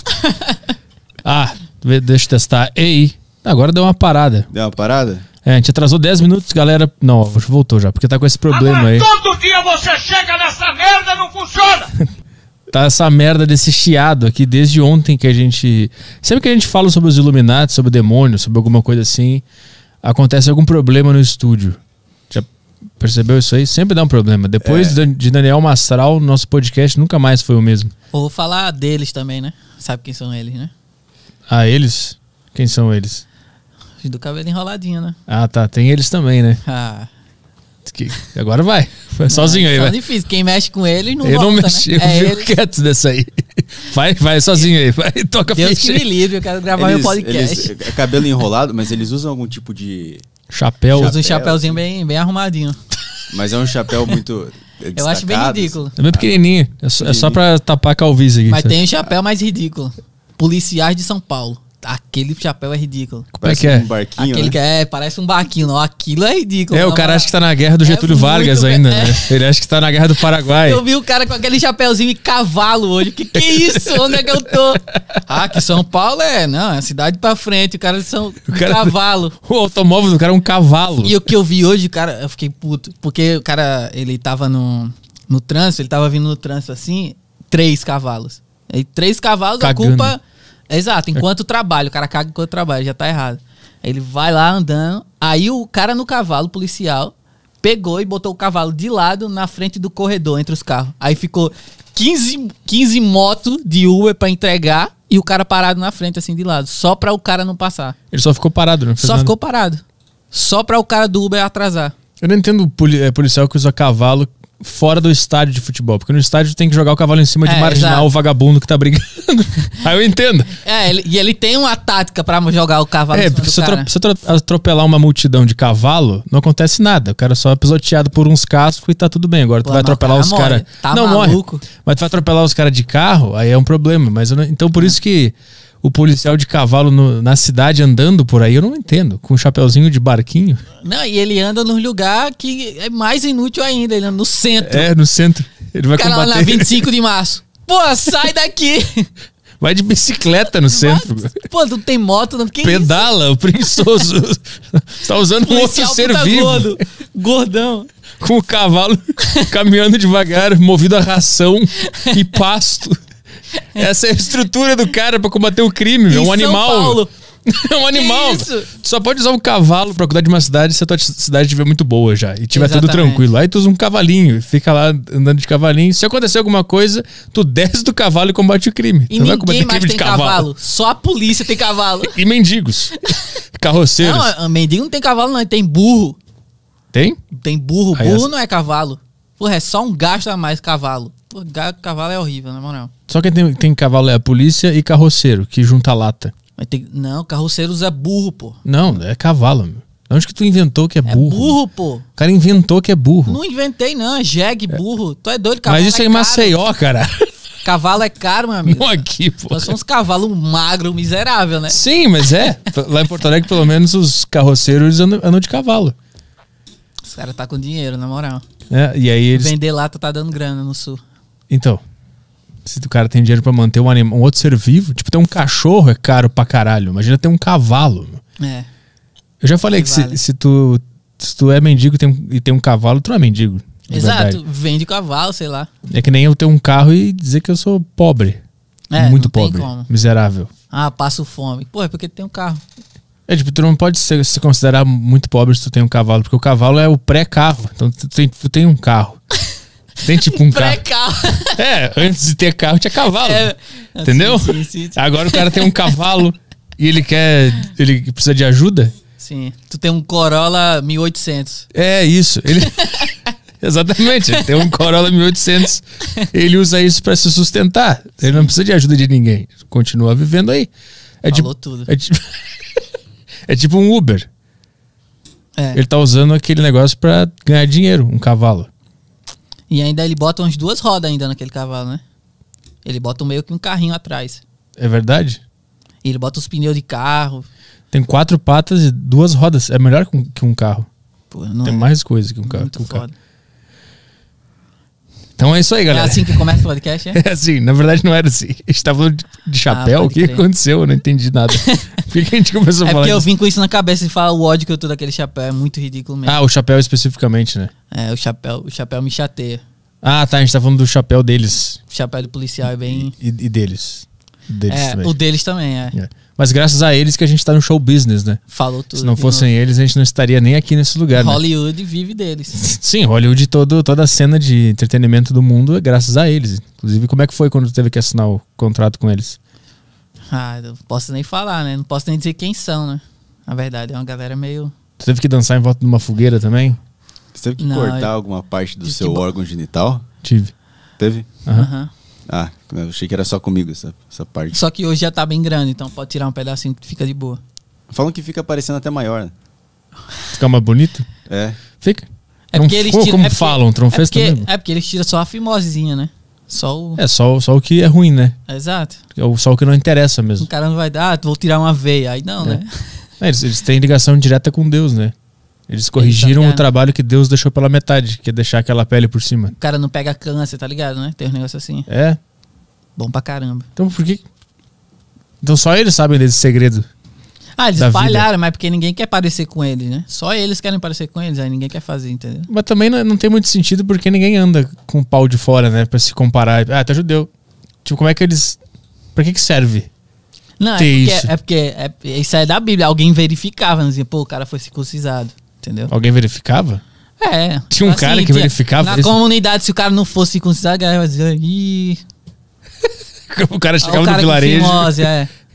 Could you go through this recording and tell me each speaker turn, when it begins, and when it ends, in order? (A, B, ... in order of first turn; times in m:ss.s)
0:01.2-0:04.5 A
0:04.5-0:05.2 B
0:05.4-0:09.1 A
0:08.5-0:11.9 C
0:12.7-0:19.4 A
0:20.0-0:21.8 A
0:23.0-0:27.9 A
0:24.6-0:25.0 B
0:28.1-0:30.7 D
0:31.5-0:33.2 A
0:34.0-0:35.2 D
0:35.3-0:36.6 A
0:36.6-0:37.1 D
0:37.8-0:39.9 A
0:39.3-0:42.5 D
0:41.2-0:46.0 A
0:45.5-0:47.8 D
0:46.7-0:50.2 B
0:50.5-0:51.2 A
0:50.9-0:52.8 D
0:51.0-0:51.8 B
0:53.3-0:56.3 B
0:54.9-0:55.9 D
0:56.0-0:58.8 A
0:57.0-0:57.4 B
0:58.5-1:03.3 D
1:03.3-1:03.9 A
1:03.4-1:04.6 B
1:04.2-1:07.3 D
1:06.7-1:10.8 A
1:07.8-1:09.3 D
1:10.5-1:19.4 D
1:13.4-1:14.3 A
1:18.5-1:21.3 A
1:21.0-1:48.0 D
1:29.6-1:30.1 A
1:48.1-1:49.3 A
1:49.0-1:51.9 D
1:52.2-2:00.6 A
1:57.4-1:58.1 D
2:00.6-2:03.9 D
2:03.1-2:20.6 A
2:09.6-2:11.6 D
2:20.8-2:24.9 D
2:24.6-2:26.9 A
2:26.0-2:29.1 D
2:29.6-2:31.4 A
2:30.7-2:33.0 D
2:32.6-2:36.8 A
2:35.4-2:37.9 D
2:38.2-2:43.0 A
2:43.8-3:00.5 A
2:46.1-2:47.1 D
2:47.9-2:48.7 D
2:52.5-2:53.2 D
2:59.1-3:02.1 D
3:02.1-3:03.0 A
3:03.6-3:04.3 A
3:04.0-3:06.2 D
3:06.9-3:07.2 A
3:07.3-3:12.9 D
3:07.9-3:08.3 A
3:13.1-3:16.3 A
3:16.6-3:18.6 D
3:18.6-3:21.6 A
3:21.0-3:22.0 D
3:22.2-3:23.4 A
3:23.2-3:26.6 D
3:25.6-3:27.3 A
3:27.6-3:31.8 D
3:28.6-3:29.7 A
3:31.7-3:35.9 A
3:37.0-3:38.4 D
3:38.7-3:39.5 A
3:39.3-3:41.0 D
3:41.5-3:41.8 A
3:42.6-3:48.2 A
3:48.4-3:48.7 D
3:49.4-3:54.4 A
3:49.7-3:50.2 D
3:53.9-3:55.7 D
3:55.9-3:58.4 A
3:58.9-3:59.9 D
3:59.0-4:00.5 A
4:00.7-4:02.6 D
4:03.3-4:09.2 A
4:10.0-4:10.8 A
4:10.3-4:11.6 D
4:11.5-4:13.5 A
4:13.2-4:15.8 D
4:14.0-4:18.9 A
4:19.2-4:21.6 D
4:21.7-4:22.8 A
4:23.6-4:30.7 A
4:28.2-4:28.5 D
4:31.2-4:32.3 A
4:31.3-4:31.9 D
4:33.5-4:34.3 A
4:35.7-4:38.7 A
4:39.7-4:42.0 D
4:42.8-4:44.4 D
4:44.8-4:45.4 A
4:46.0-4:47.5 D
4:47.9-4:50.9 A
4:51.3-4:51.9 D
4:51.6-4:53.0 A
4:52.4-4:53.1 D
4:55.4-4:56.4 A
4:55.9-4:57.2 D
4:57.1-5:03.2 A
4:59.7-5:00.4 D
5:02.8-5:06.4 D
5:06.2-5:07.7 A
5:07.9-5:09.6 D
5:10.0-5:11.8 A
5:11.9-5:13.1 D
5:12.9-5:15.1 A
5:14.7-5:16.0 D
5:15.9-5:18.4 A
5:18.5-5:19.5 D
5:18.9-5:21.4 A
5:21.1-5:22.6 D
5:22.6-5:29.4 A
5:30.3-5:34.7 D
5:35.0-5:36.8 A
5:37.3-5:40.0 B
5:37.6-5:38.1 D
5:38.8-5:39.2 D
5:40.2-5:40.5 A
5:41.0-5:41.3 B
5:41.5-5:41.9 D
5:42.3-5:44.6 B
5:44.5-5:47.4 D
5:47.9-5:49.3 B
5:50.3-5:51.1 A
5:51.3-5:51.6 B
5:51.8-5:54.5 A
5:52.5-5:57.0 D
5:57.0-5:58.4 A
5:58.5-5:59.0 D
5:59.1-6:00.5 A
6:00.4-6:02.8 D
6:03.2-6:05.1 A
6:05.7-6:09.6 A
6:06.0-6:06.6 D
6:09.6-6:11.9 D
6:11.9-6:12.2 A
6:13.0-6:13.7 D
6:13.8-6:14.2 A
6:15.4-6:16.9 A
6:17.6-6:22.5 D
6:17.8-6:18.3 A
6:22.5-6:27.3 A
6:27.8-6:28.6 A
6:29.1-6:29.9 A
6:30.6-6:35.9 D
6:30.8-6:31.3 A
6:35.9-6:36.8 A
6:37.2-6:42.0 D
6:37.7-6:39.2 A
6:43.3-6:45.1 A
6:43.8-6:45.3 D